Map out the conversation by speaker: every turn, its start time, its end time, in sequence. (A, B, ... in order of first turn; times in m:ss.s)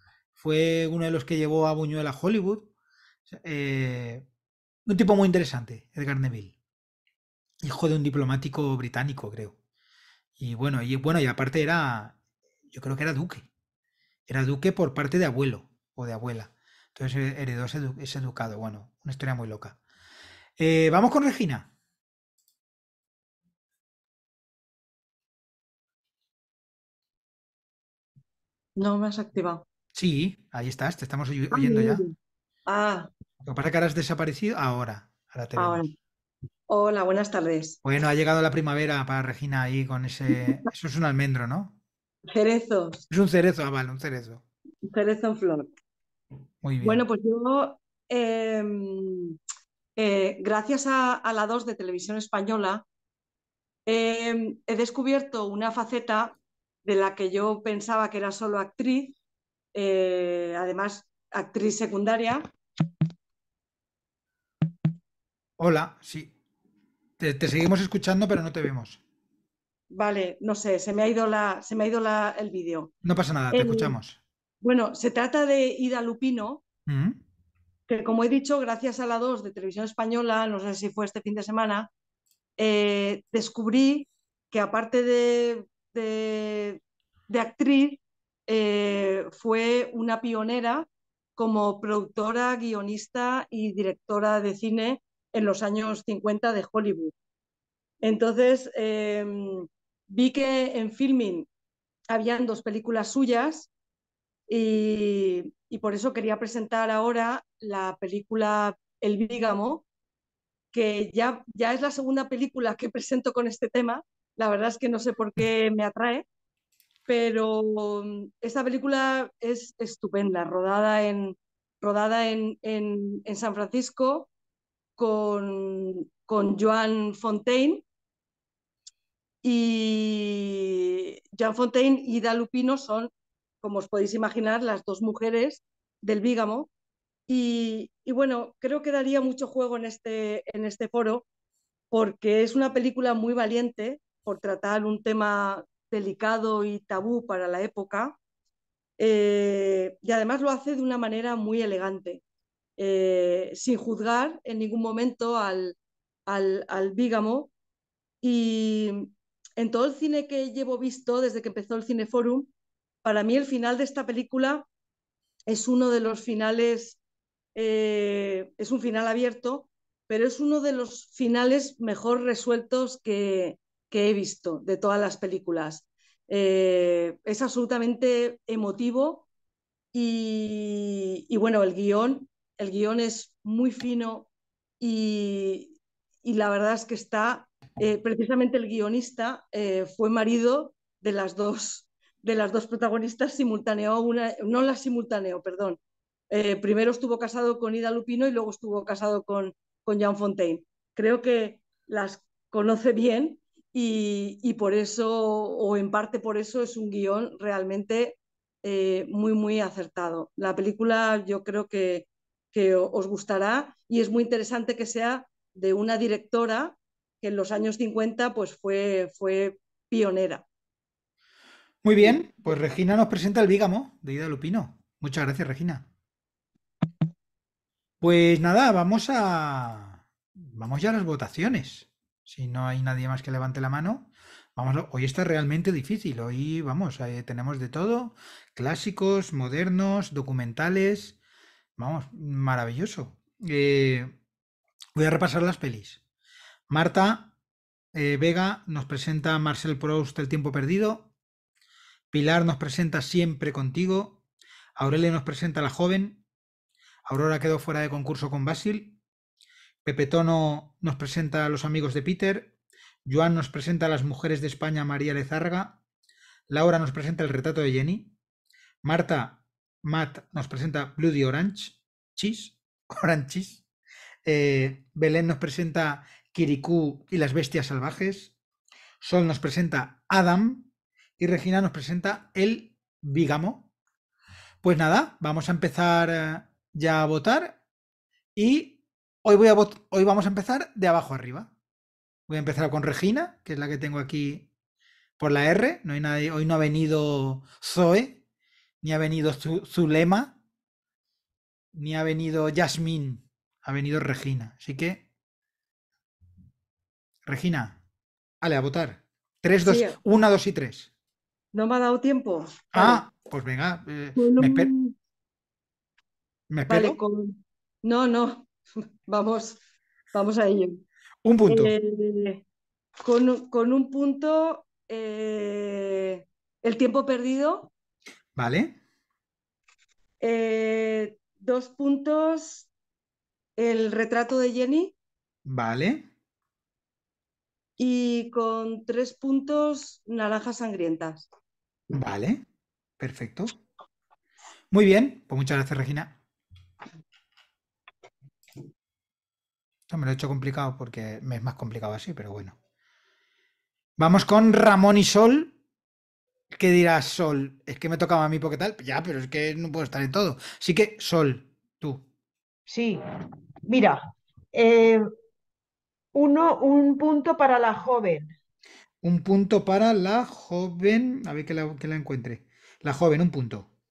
0:00.4-0:02.7 A
0:03.3-0:04.3 A
0:04.9-0:06.5 A
0:07.6-0:09.6 A
0:10.4-0:12.2 A
0:12.7-0:13.5 A
0:14.3-0:19.8 A
0:20.6-0:21.7 A
0:28.8-0:29.6 B
0:29.9-0:32.1 A
0:31.5-0:32.1 B
0:32.7-0:33.1 B
0:33.4-0:35.8 A
0:35.6-0:35.9 B
0:36.7-0:37.8 B
0:37.8-0:41.8 A
0:42.3-0:43.0 B
0:43.1-0:44.4 A
0:44.9-0:45.7 B
0:46.6-0:47.0 A
0:46.8-0:49.4 B
0:50.0-0:52.8 B
0:53.9-0:59.2 B
0:59.8-1:02.5 B
1:05.6-1:06.3 A
1:07.2-1:09.0 A
1:09.9-1:12.9 B
1:13.0-1:14.2 A
1:13.5-1:14.0 B
1:14.6-1:16.6 B
1:16.9-1:17.2 A
1:17.9-1:21.9 B
1:22.6-1:37.1 B
1:38.0-1:41.5 B
1:42.1-1:43.7 B
1:44.5-1:49.8 B
1:50.7-1:56.2 B
1:57.1-2:04.3 B
2:05.0-2:07.8 B
2:09.4-2:13.1 B
2:13.6-2:16.7 B
2:17.3-2:21.2 B
2:21.9-2:28.2 B
2:29.0-2:32.2 B
2:32.8-2:35.8 B
2:36.3-2:37.5 B
2:38.2-2:42.5 B
2:43.0-2:44.7 B
2:45.5-2:47.0 B
2:47.6-2:59.3 B
2:59.9-3:04.3 B
3:04.8-3:15.8 B
3:16.3-3:40.4 B
3:41.8-3:45.9 A
3:48.0-4:01.2 A
4:01.8-4:04.2 A
4:05.0-4:06.0 A
4:06.7-4:07.3 A
4:07.9-4:11.1 A
4:12.1-4:14.2 A
4:14.8-4:16.2 A
4:17.0-4:19.0 A
4:19.8-4:22.5 A
4:23.0-4:25.8 A
4:26.5-4:28.1 A
4:28.8-4:33.6 A
4:34.2-4:38.3 A
4:39.0-4:43.7 A
4:44.6-4:47.6 A
4:48.4-4:51.5 A
4:52.3-4:54.5 A
4:55.2-4:58.2 A
4:58.8-5:00.4 A
5:01.7-5:05.0 A
5:07.2-5:07.8 A
5:08.4-5:10.9 A
5:09.6-5:10.0 B
5:11.5-5:13.0 B
5:12.7-5:14.7 A
5:14.2-5:14.9 B
5:16.5-5:17.0 A
5:16.7-5:18.5 B
5:19.1-5:19.6 B
5:20.1-5:20.8 B
5:21.2-5:21.7 A
5:21.5-5:22.4 B
5:23.0-5:27.7 B
5:28.4-5:28.8 A
5:30.2-5:32.7 B
5:33.6-5:34.9 B
5:35.4-5:36.1 A
5:37.8-5:41.3 B
5:41.9-5:42.4 A
5:43.0-5:43.6 A
5:44.7-5:46.2 A
5:49.9-5:52.6 A
5:54.0-5:55.5 A
5:56.5-6:02.0 A
6:02.7-6:03.0 C
6:03.7-6:05.1 C
6:06.2-6:08.4 C
6:09.0-6:13.7 A